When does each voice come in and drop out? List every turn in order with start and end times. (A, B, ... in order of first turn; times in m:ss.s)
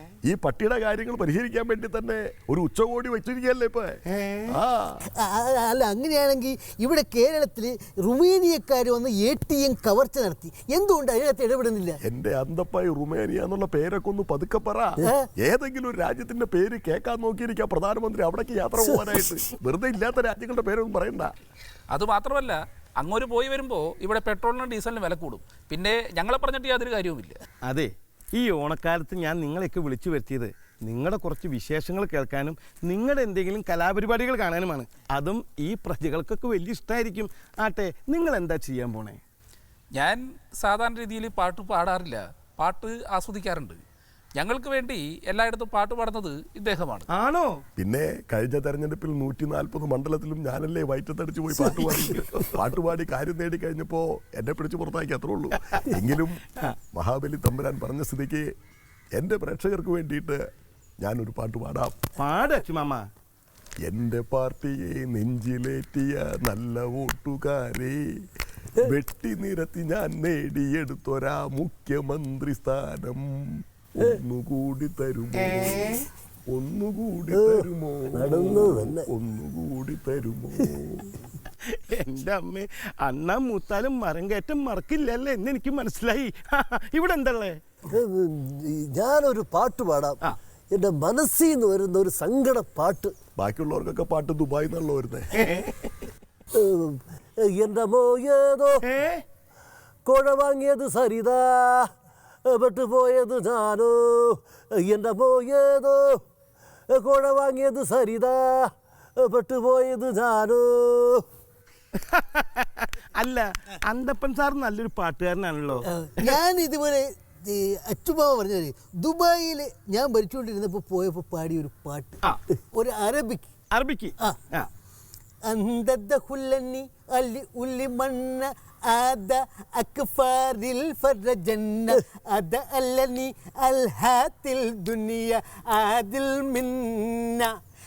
0:00.3-0:04.0 A
0:04.1-0:04.6 B
0:04.5-0:05.0 A
0:05.2-0:12.0 C
0:12.0-0:21.3 A
0:21.9-0:27.4 D
0:27.6-0:39.2 B
0:39.9-0:43.8 D
0:44.4-0:47.1 D
0:47.1-0:47.6 B
0:47.8-0:56.4 A
0:51.9-0:52.5 B
0:56.9-0:58.4 A
0:59.2-1:00.4 A
1:01.0-1:02.0 A
1:02.2-1:03.1 B
1:03.8-1:08.0 A
1:08.8-1:13.3 A
1:14.0-1:15.9 A
1:15.3-1:16.0 B
1:16.5-1:21.2 A
1:17.3-1:19.1 E
1:21.4-1:27.6 B
1:27.9-1:30.2 E
1:30.7-1:33.1 E
1:33.4-1:35.3 A
1:35.3-1:36.0 B
1:36.5-1:38.8 E
1:38.8-1:39.2 B
1:40.0-1:41.9 E
1:42.5-1:46.2 E
1:46.9-1:51.2 E
1:51.9-1:56.4 B
1:55.9-2:02.2 C
2:02.7-2:03.5 C
2:03.7-2:04.7 B
2:05.5-2:17.5 C